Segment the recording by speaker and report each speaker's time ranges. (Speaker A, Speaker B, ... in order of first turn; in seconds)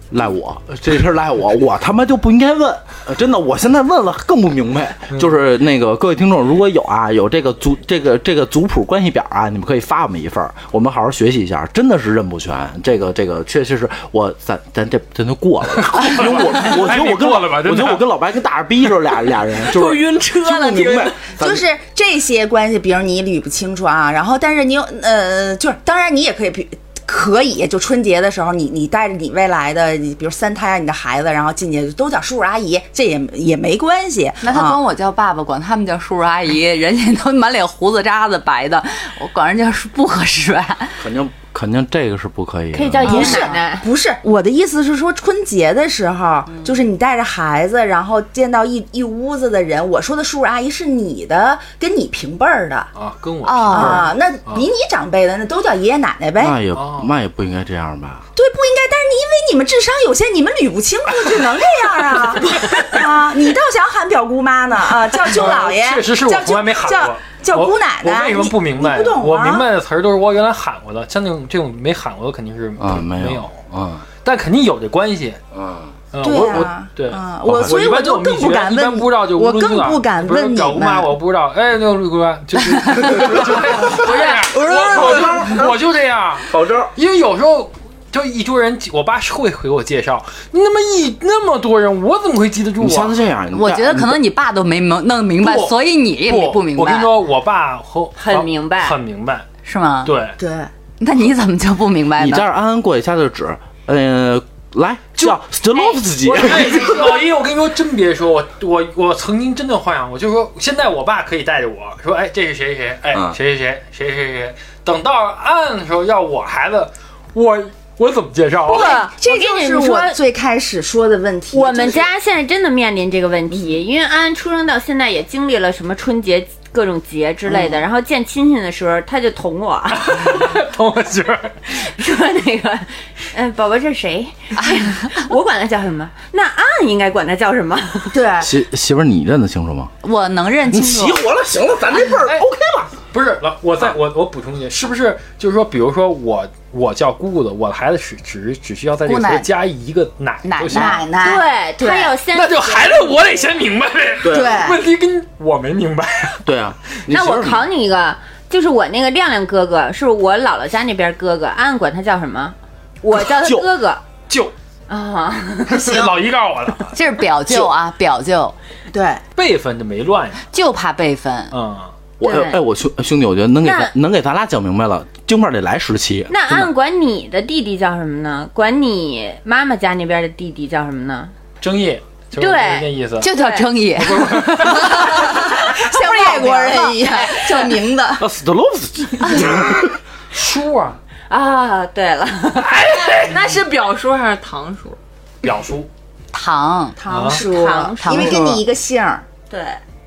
Speaker A: 0.1-21.6, 41.0-43.1, 56.4-58.3, 72.8-74.0, 75.5-75.9, 77.5-77.8, 83.1-85.8, 86.5-86.9, 92.8-94.2, 102.2-107.2, 113.1-113.4, 138.4-139.9, 140.7-142.9, 154.2-154.6, 156.4-157.7, 163.1-163.7, 172.2-176.7, 188.2-189.9
Speaker B: 5.1-5.4, 15.9-18.1, 53.0-54.7, 56.7-57.1, 65.1-73.6, 74.2-75.4, 76.1-93.2, 95.4-99.5, 100.0-100.4, 106.2-118.9, 129.9-131.6, 142.0-142.5, 143.1-151.1, 152.3-156.4, 164.3-164.5, 165.7-166.9, 169.4-170.4, 171.5-171.9, 181.6-183.3, 184.0-185.0, 190.3-191.0, 192.6-193.4, 195.4-195.9, 197.1-197.5
Speaker C: 19.6-21.2, 193.2-195.0
Speaker D: 20.9-34.8, 43.0-52.9, 53.7-56.6, 58.4-69.7, 76.2-81.1, 100.4-100.7, 118.7-122.1, 138.1-138.6, 150.7-152.2, 154.3-154.8, 168.9-169.2, 184.9-188.3, 197.0-199.2
Speaker E: 34.4-41.0, 53.4-54.1, 93.5-97.1, 99.7-100.1, 101.0-102.5, 140.0-141.2, 149.1-149.5, 150.4-151.1, 166.9-168.6, 170.5-171.5, 183.2-187.6, 196.3-197.0, 198.0-198.6
Speaker F: 42.7-43.9, 98.2-99.0, 105.7-106.0, 118.7-120.2, 121.5-130.5, 131.7-138.2, 151.2-153.3, 157.1-164.0, 164.9-166.1, 172.2-172.6, 173.6-173.9, 176.3-181.3, 182.3-183.7, 185.2-185.5, 186.8-187.7, 189.2-189.6, 191.3-192.9, 197.3-198.6, 199.5-199.8